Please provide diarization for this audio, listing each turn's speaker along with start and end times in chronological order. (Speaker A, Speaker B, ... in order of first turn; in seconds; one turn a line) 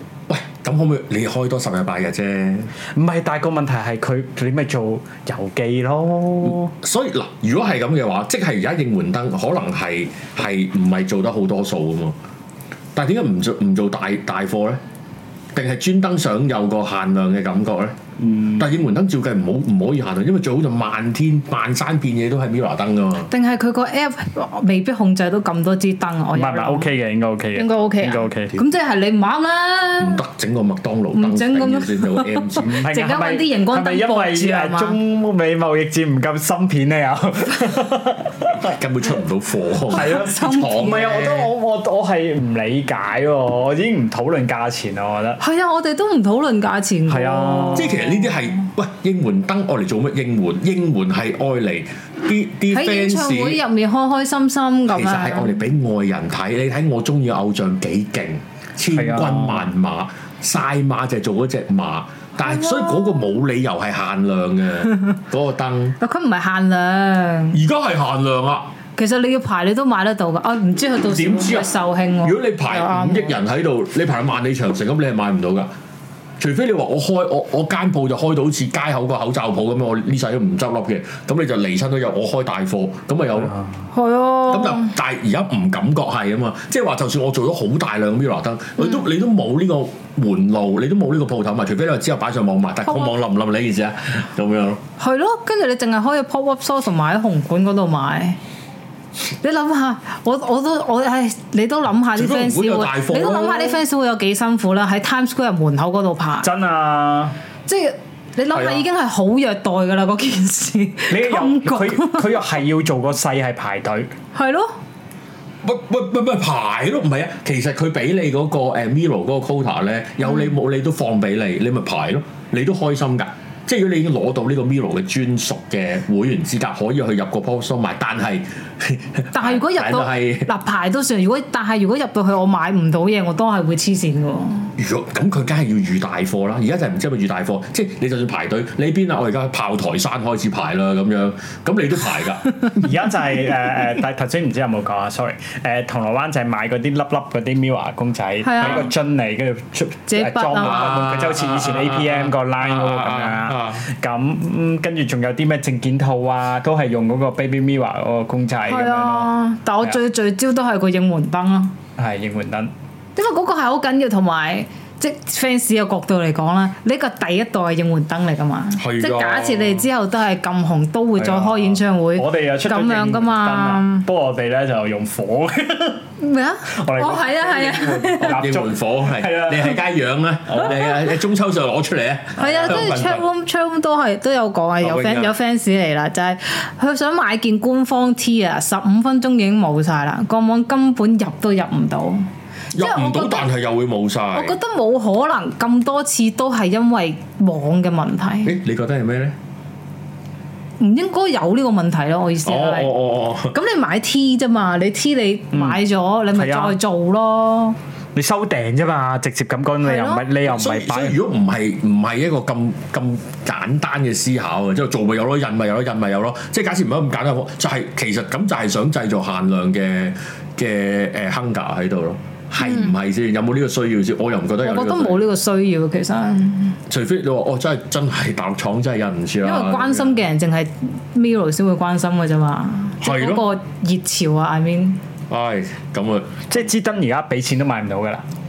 Speaker A: 0.3-2.7
Speaker B: 2.9-6.7
Speaker A: 6.4-12.2
Speaker A: 12.9-14.8
Speaker A: 15.5-17.9
Speaker A: 18.5-23.3
Speaker C: 23.3-26.9
Speaker B: 26.3-28.6
Speaker C: 27.5-30.2
Speaker A: 30.0-32.8
Speaker C: 31.1-35.0
Speaker B: 32.6-38.7
Speaker A: 38.6-41.5
Speaker C: 39.9-41.2
Speaker B: 39.9-45.4
Speaker C: 45.4-48.4
Speaker B: 47.1-48.0
Speaker A: 47.7-53.6
Speaker C: 52.7-55.6
Speaker A: 54.9-66.0
Speaker B: 58.9-59.7
Speaker C: 62.4-63.3
Speaker C: 66.0-67.6
Speaker A: 67.5-68.7
Speaker C: 69.0-73.3
Speaker A: 71.1-75.7
Speaker A: 76.4-83.5
Speaker C: 83.9-84.9
Speaker A: 84.5-94.8
Speaker C: 92.9-93.1
Speaker C: 95.0-98.4
Speaker C: 99.4-106.5
Speaker A: 102.1-103.8
Speaker B: 106.4-107.3
Speaker C: 107.7-112.4
Speaker A: 108.5-108.8
Speaker B: 111.1-114.1
Speaker C: 114.3-114.7
Speaker A: 115.6-130.5
Speaker C: 129.3-134.7
Speaker A: 134.8-142.9
Speaker B: 142.8-159.3
Speaker C: 148.4-148.9
Speaker C: 150.1-151.1
Speaker A: 150.6-153.8
Speaker C: 158.7-161.7
Speaker B: 162.0-162.7
Speaker C: 163.2-174.1
Speaker A: 168.8-169.8
Speaker B: 171.2-176.0
Speaker C: 176.2-178.4
Speaker B: 176.7-179.8
Speaker A: 178.2-183.2
Speaker B: 180.5-180.8
Speaker B: 182.4-183.0
Speaker C: 182.4-193.5
Speaker A: 184.8-185.3
Speaker A: 192.7-194.6
Speaker C: 194.3-198.5
Speaker A: 198.4-199.3
Speaker C: 200.8-202.9
Speaker A: 202.4-203.5
Speaker C: 203.5-207.8
Speaker B: 205.5-205.8
Speaker B: 206.3-206.8
Speaker B: 208.2-211.2
Speaker C: 209.8-210.2
Speaker A: 210.4-225.2
Speaker C: 222.6-222.9
Speaker C: 224.6-226.8
Speaker A: 226.9-230.2
Speaker C: 229.4-235.0
Speaker A: 233.0-233.4
Speaker A: 235.3-236.5
Speaker B: 236.5-238.2